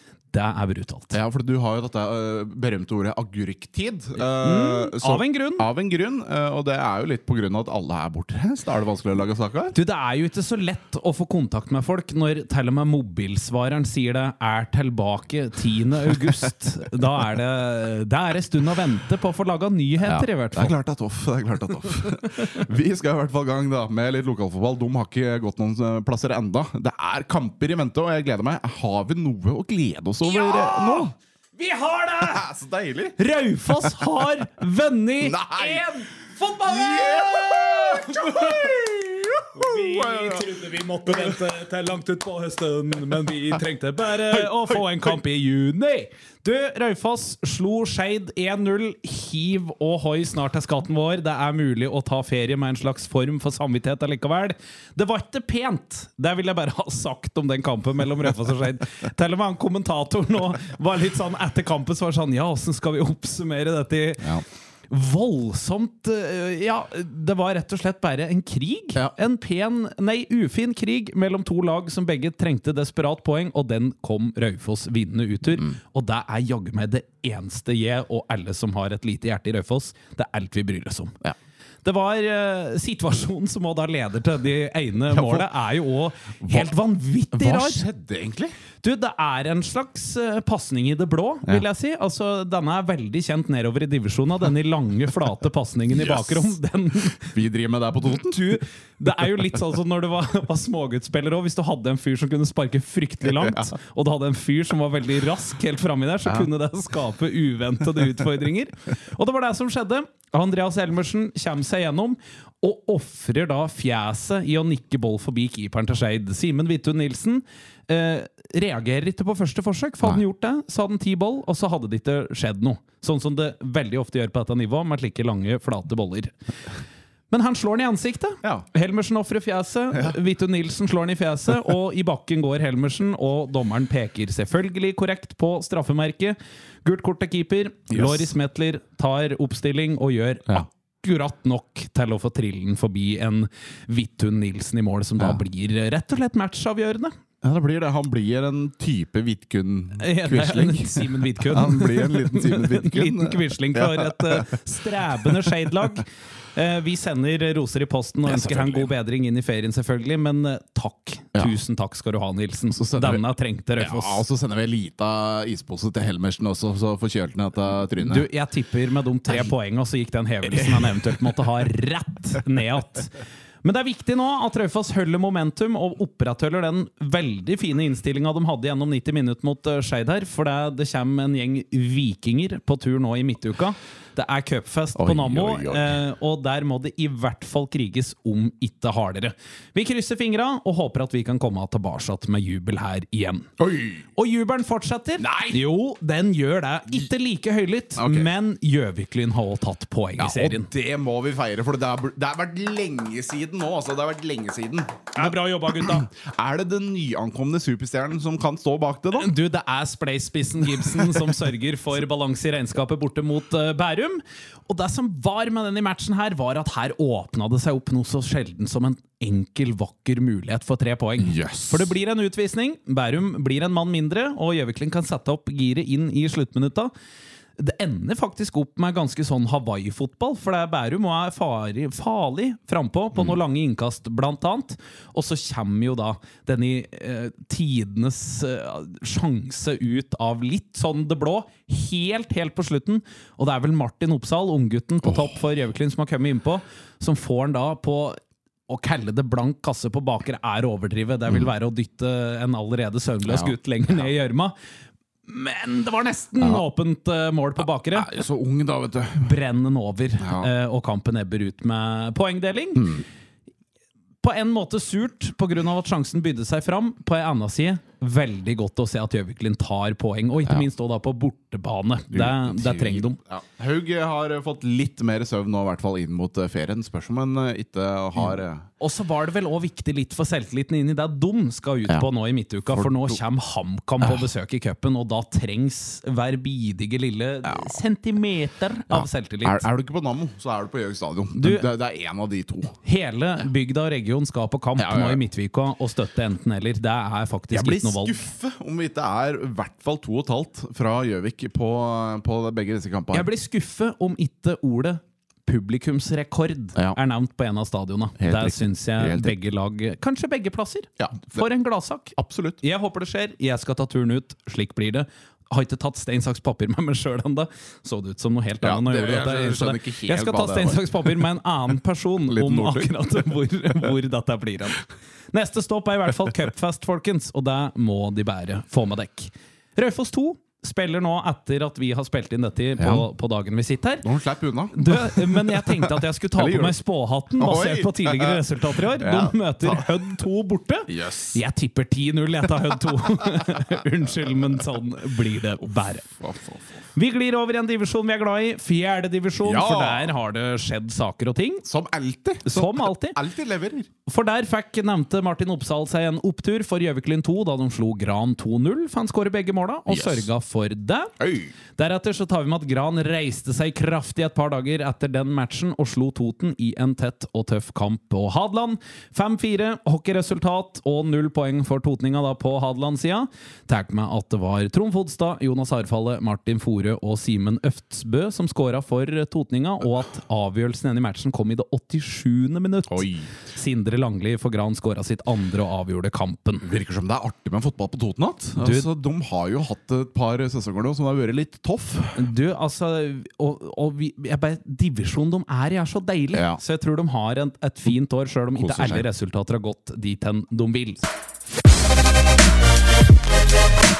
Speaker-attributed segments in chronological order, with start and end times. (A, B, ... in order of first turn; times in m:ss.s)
0:00.3-0:01.1 A
0:01.1-0:09.7 B
0:04.4-0:05.7 A
0:09.7-0:20.7 A
0:20.0-0:31.1 B
0:22.0-0:22.6 A
0:30.2-0:32.4 A
0:32.2-0:33.2 B
0:33.2-1:21.2 A
0:35.2-0:36.0 B
0:36.6-0:40.5 B
0:44.2-0:45.1 B
1:21.8-1:27.8 A
1:25.1-1:25.4 B
1:26.4-1:26.7 B
1:27.3-1:28.6 B
1:28.8-1:37.4 A
1:35.9-1:36.6 B
1:37.2-1:38.6 B
1:38.1-2:06.3 A
1:43.2-1:43.7 B
2:07.3-2:27.1 A
2:17.9-2:18.3 B
2:27.4-2:34.6 B
2:30.0-2:44.2 A
2:35.2-2:35.5 B
2:38.2-2:38.9 B
2:42.8-2:43.2 B
2:43.8-2:48.3 B
2:48.0-3:13.5 A
2:50.4-2:51.4 B
3:05.0-3:06.0 B
3:13.6-3:14.0 B
3:14.1-3:20.7 A
3:15.2-3:15.6 B
3:18.0-3:18.3 B
3:20.2-3:29.4 B
3:25.1-3:26.0 A
3:29.1-3:46.9 A
3:30.7-3:31.5 B
3:41.2-3:41.9 B
3:47.6-4:08.2 A
4:05.0-4:05.3 B
4:08.7-4:14.5 A
4:13.2-4:14.1 B
4:15.3-4:18.2 A
4:16.4-4:16.6 B
4:17.9-4:19.3 B
4:19.2-4:23.0 A
4:20.2-4:20.5 B
4:22.8-4:23.0 B
4:24.2-4:33.2 A
4:32.1-4:38.6 B
4:38.2-4:49.7 A
4:42.7-4:43.2 B
4:44.0-4:44.3 B
4:47.4-4:47.8 B
4:48.9-4:52.7 B
4:51.3-4:51.7 A
4:52.8-4:58.2 A
4:54.8-4:55.2 B
4:57.5-5:03.3 B
5:03.1-5:34.0 A
5:08.2-5:09.3 B
5:11.0-5:11.4 B
5:12.2-5:12.6 B
5:18.6-5:21.2 B
5:22.3-5:23.0 B
5:32.8-5:33.0 B
5:34.0-5:36.8 B
5:34.7-5:46.1 A
5:37.4-5:40.0 B
5:40.9-5:41.4 B
5:43.4-5:43.7 B
5:46.2-5:46.8 B
5:46.9-5:51.6 A
5:49.4-5:50.1 B
5:51.6-5:53.9 B
5:52.4-5:53.2 A
5:54.0-6:01.2 A
5:59.9-6:00.3 B
6:01.2-6:01.5 B
6:01.7-6:26.7 A
6:22.9-6:23.3 B
6:26.6-6:32.2 B
6:28.6-6:28.9 A
6:32.2-6:41.1 A
6:36.3-6:36.6 B
6:38.5-6:39.0 B